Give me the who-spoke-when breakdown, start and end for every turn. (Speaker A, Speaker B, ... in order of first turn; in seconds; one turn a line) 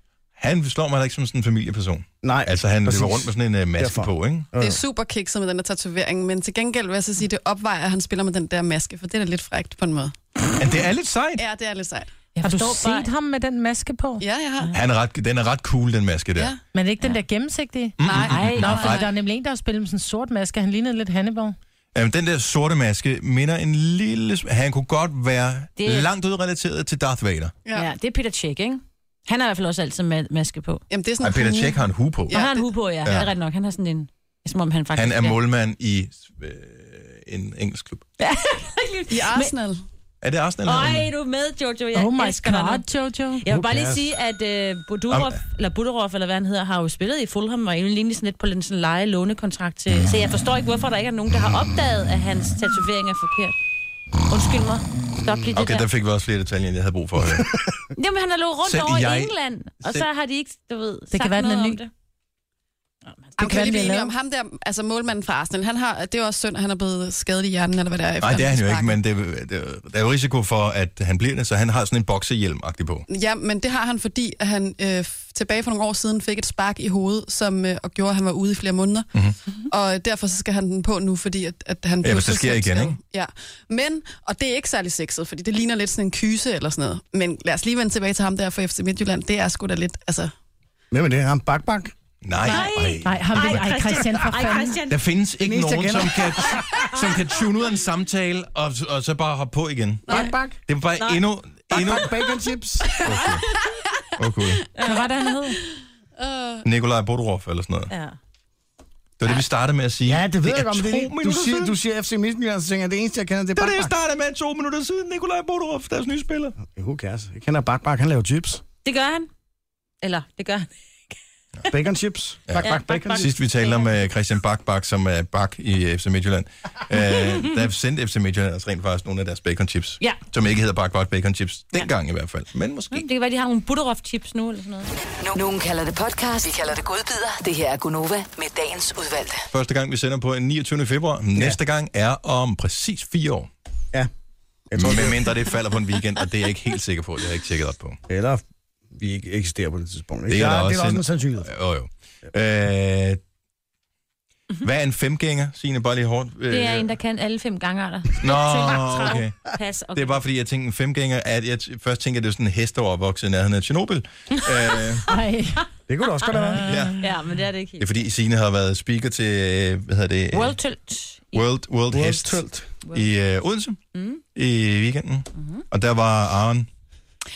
Speaker A: 0.4-4.5
Speaker B: 2.2-4.8
Speaker C: 4.5-10.6
Speaker A: 10.6-11.4
Speaker C: 11.4-12.1
Speaker D: 12.3-13.1
Speaker E: 12.4-14.2
Speaker C: 14.2-14.7
Speaker A: 14.7-16.5
Speaker E: 16.7-21.6
Speaker A: 18.0-19.0
Speaker C: 18.0-19.1
Speaker D: 18.3-18.9
Speaker A: 21.9-27.5
Speaker D: 25.8-26.1
Speaker D: 27.7-30.8
Speaker C: 30.9-32.6
Speaker A: 31.2-32.4
Speaker D: 32.3-35.4
Speaker A: 33.0-33.3
Speaker A: 34.9-38.0
Speaker D: 38.2-39.5
Speaker C: 39.1-39.8
Speaker A: 40.2-41.1
Speaker D: 40.6-42.8
Speaker E: 41.9-43.4
Speaker D: 43.4-53.5
Speaker B: 43.5-44.1
Speaker A: 45.1-45.4
Speaker D: 54.3-55.9
Speaker A: 55.5-57.6
Speaker B: 57.4-57.7
Speaker D: 58.0-61.9
Speaker A: 58.6-59.3
Speaker E: 61.1-61.8
Speaker C: 63.4-69.0
Speaker E: 63.4-64.1
Speaker A: 68.2-73.0
Speaker C: 73.1-79.1
Speaker C: 79.7-90.3
Speaker A: 82.0-83.0
Speaker B: 90.9-91.9
Speaker A: 92.2-93.7
Speaker C: 92.4-92.7
Speaker D: 92.4-95.0
Speaker E: 93.0-94.8
Speaker A: 94.9-102.1
Speaker B: 95.4-96.8
Speaker C: 100.1-100.3
Speaker B: 100.1-100.6
Speaker B: 101.7-103.0
Speaker D: 103.0-103.4
Speaker A: 103.0-103.4
Speaker A: 104.2-104.7
Speaker D: 104.7-105.6
Speaker E: 104.8-105.5
Speaker C: 106.2-106.6
Speaker A: 106.6-107.9
Speaker D: 107.9-108.2
Speaker A: 109.2-111.7
Speaker B: 110.0-113.9
Speaker A: 113.5-116.5
Speaker B: 116.6-118.6
Speaker D: 118.8-119.3
Speaker D: 120.0-120.7
Speaker B: 121.7-123.3
Speaker A: 122.5-133.1
Speaker D: 122.6-123.9
Speaker D: 132.9-134.9
Speaker F: 135.2-139.4
Speaker A: 139.5-143.5
Speaker B: 144.7-145.3
Speaker A: 144.7-148.0
Speaker B: 148.1-151.5
Speaker A: 150.3-153.2
Speaker A: 154.6-156.9
Speaker D: 156.5-160.2
Speaker A: 158.2-165.0
Speaker D: 164.4-164.9
Speaker E: 165.0-165.6
Speaker B: 165.9-166.7
Speaker D: 166.3-167.9
Speaker E: 166.3-166.8
Speaker A: 166.7-167.0
Speaker A: 167.8-170.6
Speaker D: 170.3-171.4
Speaker A: 171.3-173.8
Speaker B: 171.9-172.7
Speaker D: 173.9-174.2
Speaker A: 174.3-176.7
Speaker D: 175.3-175.6